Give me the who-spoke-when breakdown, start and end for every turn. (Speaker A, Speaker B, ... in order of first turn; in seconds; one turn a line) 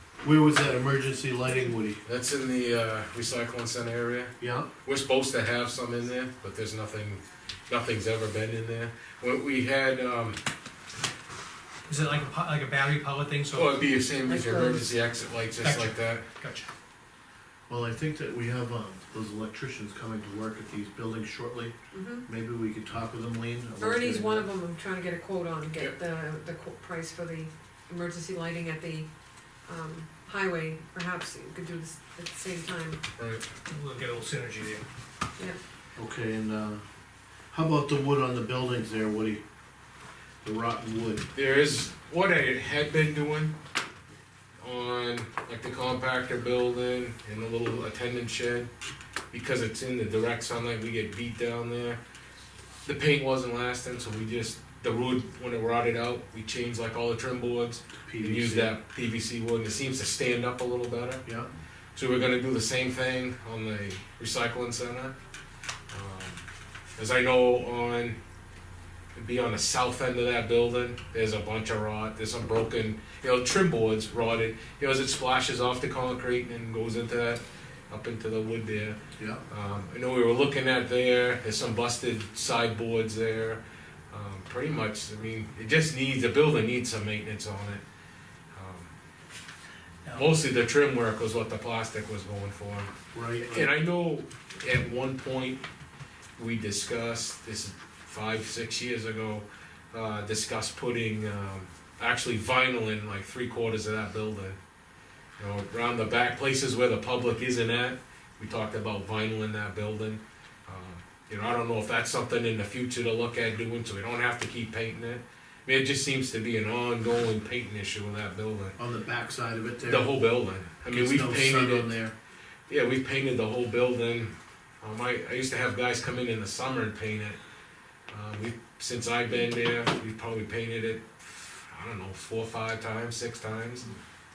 Speaker A: 0.2-2.0
Speaker B: 2.0-10.4
Speaker A: 4.4-4.7
Speaker C: 11.9-13.7
Speaker B: 13.5-16.3
Speaker D: 14.2-14.9
Speaker C: 15.6-16.7
Speaker A: 17.7-24.5
Speaker D: 21.9-22.2
Speaker D: 23.8-29.1
Speaker D: 29.7-33.0
Speaker C: 33.7-34.8
Speaker A: 36.0-36.8
Speaker A: 37.5-39.4
Speaker A: 40.4-41.3
Speaker B: 41.3-43.5
Speaker B: 44.6-48.7
Speaker B: 49.3-52.0
Speaker B: 52.8-61.2
Speaker A: 58.0-58.7
Speaker A: 61.2-61.5
Speaker B: 61.9-65.1
Speaker B: 65.9-66.4
Speaker B: 67.0-68.2
Speaker B: 69.1-79.0
Speaker A: 79.2-79.4
Speaker B: 79.5-87.8
Speaker B: 88.5-88.9
Speaker C: 90.0-90.3
Speaker B: 90.1-92.9
Speaker A: 93.1-93.7
Speaker B: 93.4-95.6
Speaker B: 96.4-104.6
Speaker B: 105.4-118.8
Speaker A: 118.8-120.1
Speaker B: 119.8-121.9
Speaker A: 120.9-122.1
Speaker B: 122.7-127.4
Speaker B: 128.1-133.9